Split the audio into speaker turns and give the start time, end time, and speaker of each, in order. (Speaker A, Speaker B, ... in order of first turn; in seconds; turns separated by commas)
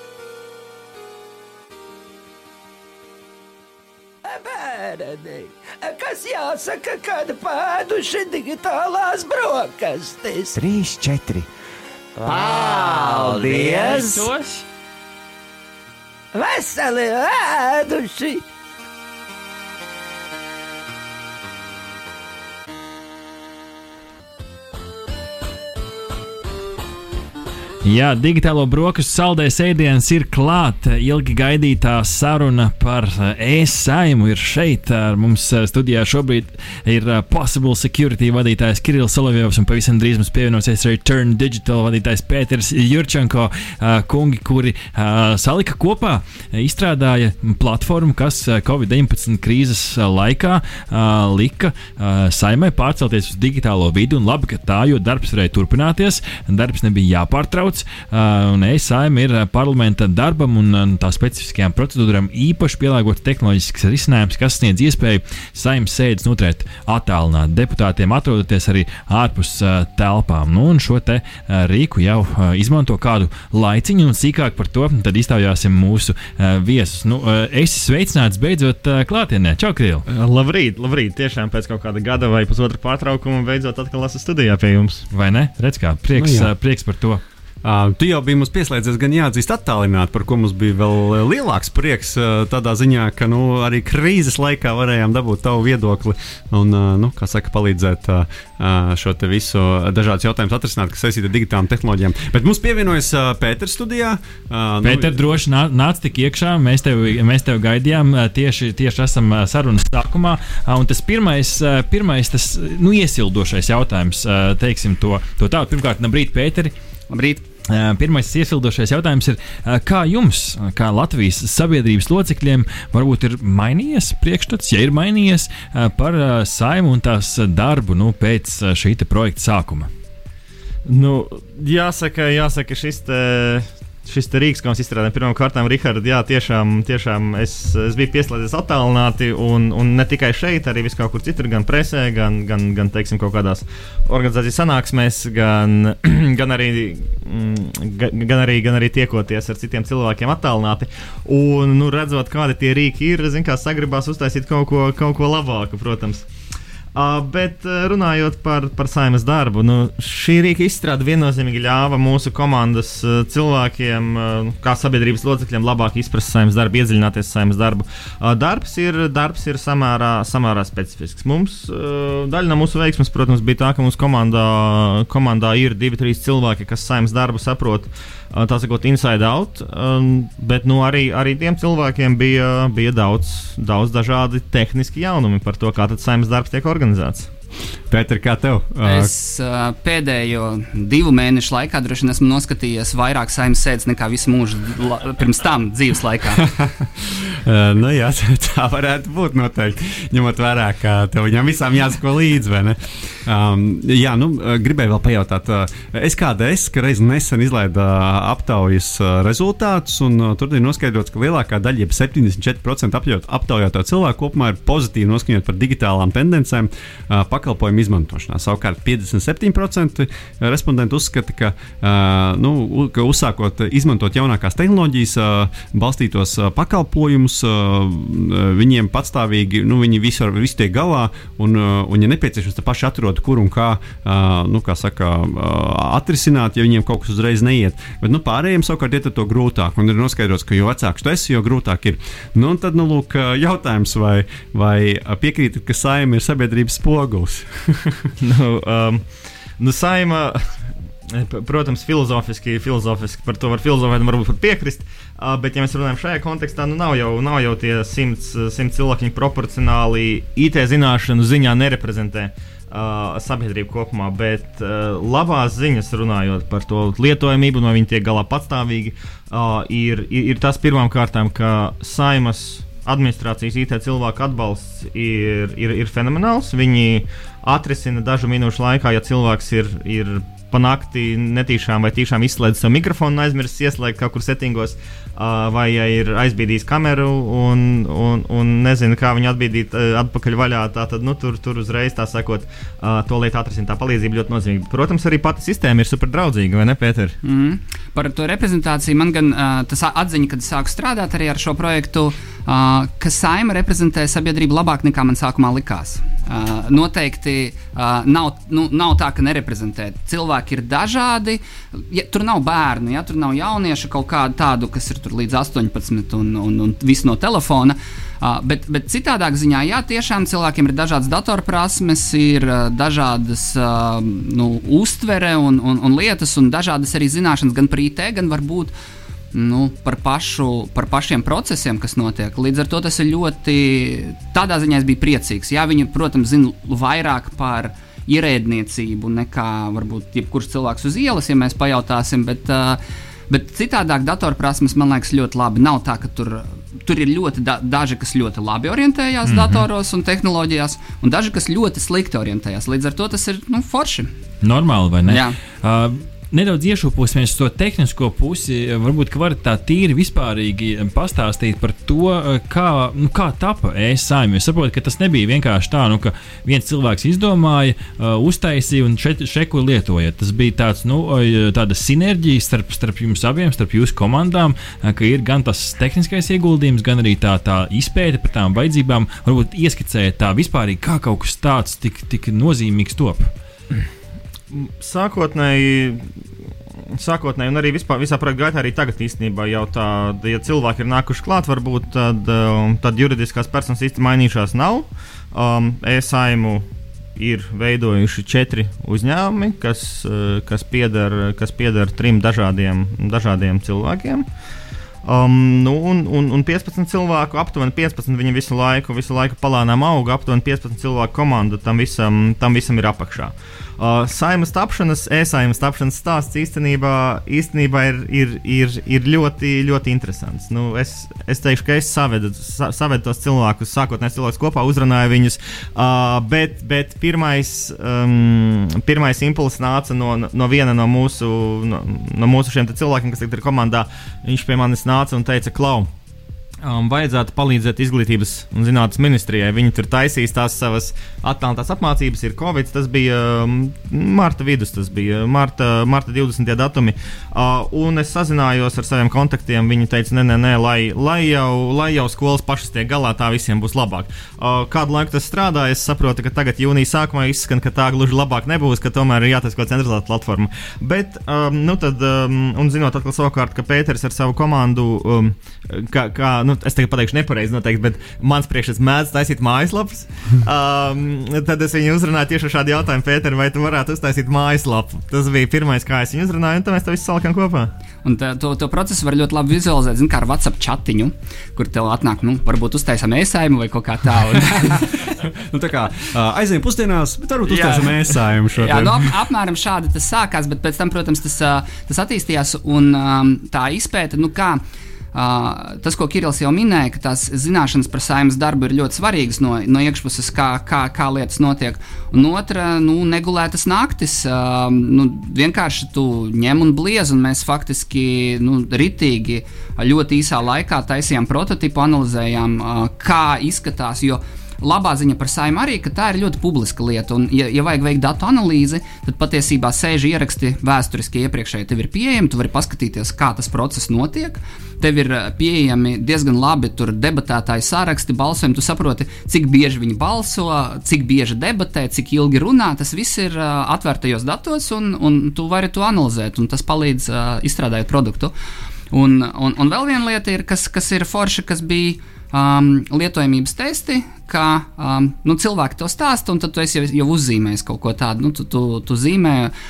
Speaker A: 4.2-10.8, Speaker B: 10.6-11.5, Speaker A: 12.2-14.3, Speaker B: 12.3-14.0, Speaker C: 13.3-14.7, Speaker A: 16.3-18.5, Speaker C: 27.8-80.0, Speaker D: 80.1-85.1, Speaker C: 85.1-87.2, Speaker E: 86.2-86.5, Speaker E: 87.6-105.2, Speaker C: 104.8-116.7, Speaker F: 117.1-117.4, Speaker C: 117.7-129.9, Speaker D: 130.9-156.2, Speaker D: 156.9-187.3, Speaker E: 187.9-189.1, Speaker F: 188.8-196.5, Speaker E: 196.4-248.1, Speaker D: 248.2-249.1, Speaker D: 249.6-297.2, Speaker F: 297.2-328.7, Speaker F: 329.3-354.1, Speaker C: 349.2-349.7, Speaker C: 354.4-383.3, Speaker F: 355.1-355.4, Speaker D: 384.5-386.1, Speaker D: 386.9-396.6, Speaker D: 397.2-404.3, Speaker D: 405.1-435.9, Speaker D: 436.6-477.7, Speaker F: 478.0-485.1, Speaker E: 485.4-489.1, Speaker F: 487.5-488.0, Speaker F: 488.6-494.6, Speaker F: 495.1-538.3, Speaker F: 538.9-549.5